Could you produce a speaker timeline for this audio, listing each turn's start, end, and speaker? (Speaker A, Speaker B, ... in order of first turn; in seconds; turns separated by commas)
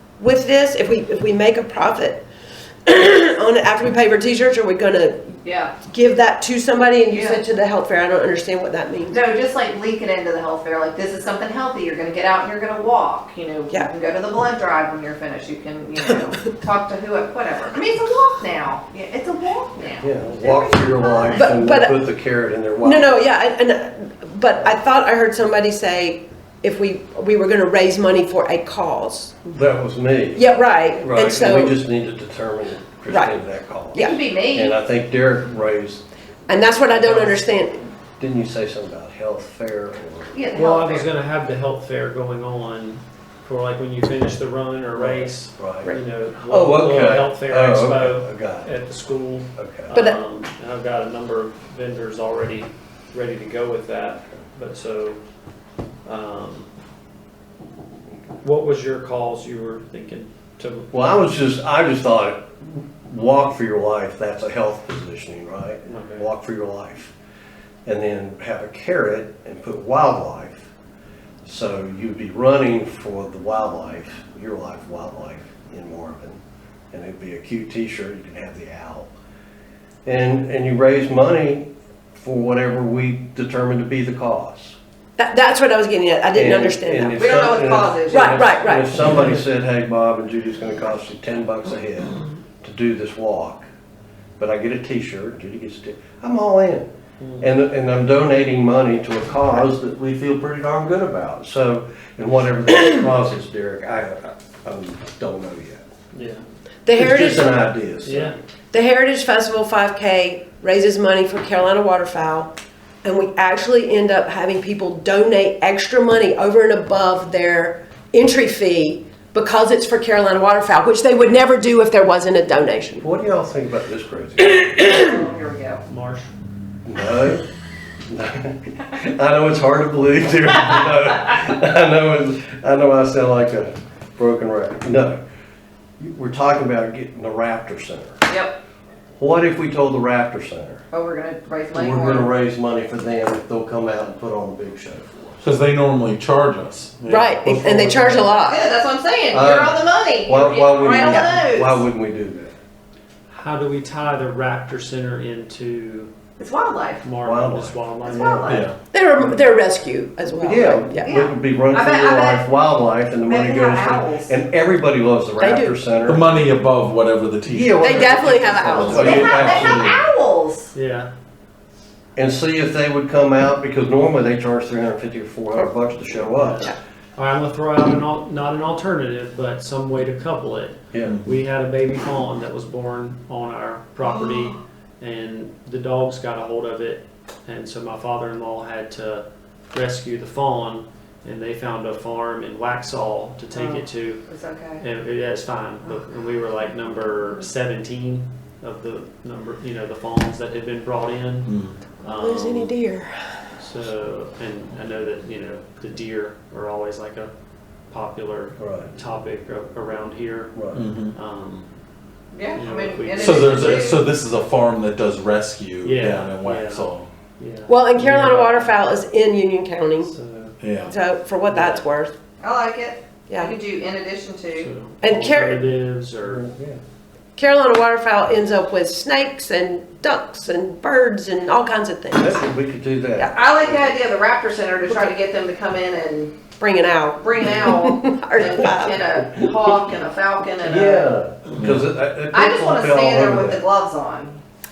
Speaker A: 0.2-2.2, Speaker A: 2.9-9.2, Speaker B: 5.4-5.8, Speaker B: 7.1-7.4, Speaker B: 9.1-21.5, Speaker C: 20.0-23.3, Speaker A: 21.4-22.1, Speaker A: 22.8-29.4, Speaker C: 29.5-30.5, Speaker A: 30.4-31.8, Speaker C: 31.0-36.0, Speaker A: 33.1-33.4, Speaker A: 33.9-34.2, Speaker B: 34.0-34.8, Speaker A: 36.5-37.9, Speaker D: 36.9-37.5, Speaker C: 38.2-40.4, Speaker B: 40.3-41.1, Speaker D: 40.5-55.2, Speaker C: 44.9-45.9, Speaker C: 46.5-48.7, Speaker C: 49.6-49.9, Speaker A: 49.9-50.2, Speaker D: 56.0-56.7, Speaker D: 58.4-61.2, Speaker C: 60.9-67.1, Speaker D: 65.9-66.3, Speaker C: 67.9-70.7, Speaker C: 71.5-76.4, Speaker C: 76.9-79.1, Speaker C: 80.0-84.8, Speaker A: 85.2-87.2, Speaker C: 86.3-93.7, Speaker B: 87.1-88.5, Speaker A: 88.1-89.0, Speaker C: 94.4-105.8, Speaker D: 97.2-97.5, Speaker D: 106.1-106.4, Speaker A: 106.8-107.7, Speaker C: 106.9-108.4, Speaker D: 108.0-108.4, Speaker A: 108.7-123.1, Speaker C: 123.0-124.7, Speaker A: 124.5-125.1, Speaker B: 124.8-125.8, Speaker D: 125.9-126.3, Speaker C: 126.8-127.5, Speaker C: 128.1-135.2, Speaker C: 136.0-138.2, Speaker B: 138.3-138.6, Speaker C: 139.2-140.8, Speaker B: 140.9-142.3, Speaker C: 141.7-145.4, Speaker E: 145.4-148.2, Speaker A: 147.1-148.7, Speaker B: 148.3-151.8, Speaker C: 149.3-152.5, Speaker A: 151.1-151.4, Speaker D: 153.3-156.1, Speaker B: 156.4-157.0, Speaker D: 157.0-158.7, Speaker C: 157.2-157.8, Speaker B: 158.0-158.7, Speaker E: 158.5-158.8, Speaker A: 158.9-161.1, Speaker C: 160.4-166.5, Speaker B: 161.0-162.5, Speaker B: 163.2-164.4, Speaker A: 165.4-165.8, Speaker E: 166.0-170.0, Speaker C: 167.5-169.9, Speaker A: 167.8-169.6, Speaker B: 168.9-170.7, Speaker D: 170.7-171.1, Speaker C: 172.2-176.7, Speaker D: 176.3-194.2, Speaker B: 193.5-194.8, Speaker D: 194.8-202.7, Speaker E: 201.5-201.8, Speaker A: 202.1-203.4, Speaker D: 203.6-207.3, Speaker D: 207.9-210.5, Speaker C: 208.6-208.9, Speaker C: 210.6-210.8, Speaker E: 210.7-211.1, Speaker D: 211.1-211.7, Speaker B: 212.3-214.1, Speaker D: 212.6-213.9, Speaker E: 213.2-217.1, Speaker D: 215.8-216.9, Speaker D: 217.4-218.8, Speaker A: 217.7-220.1, Speaker D: 220.1-220.6, Speaker E: 220.6-220.9, Speaker A: 220.8-222.1, Speaker D: 221.5-221.8, Speaker B: 222.4-224.7, Speaker A: 223.3-223.6, Speaker D: 224.6-226.5, Speaker A: 225.0-225.7, Speaker C: 226.2-226.8, Speaker A: 227.4-232.4, Speaker C: 232.2-233.7, Speaker B: 233.3-236.3, Speaker A: 236.6-239.0, Speaker B: 237.2-241.1, Speaker C: 240.6-243.6, Speaker E: 241.6-241.9, Speaker B: 242.3-244.4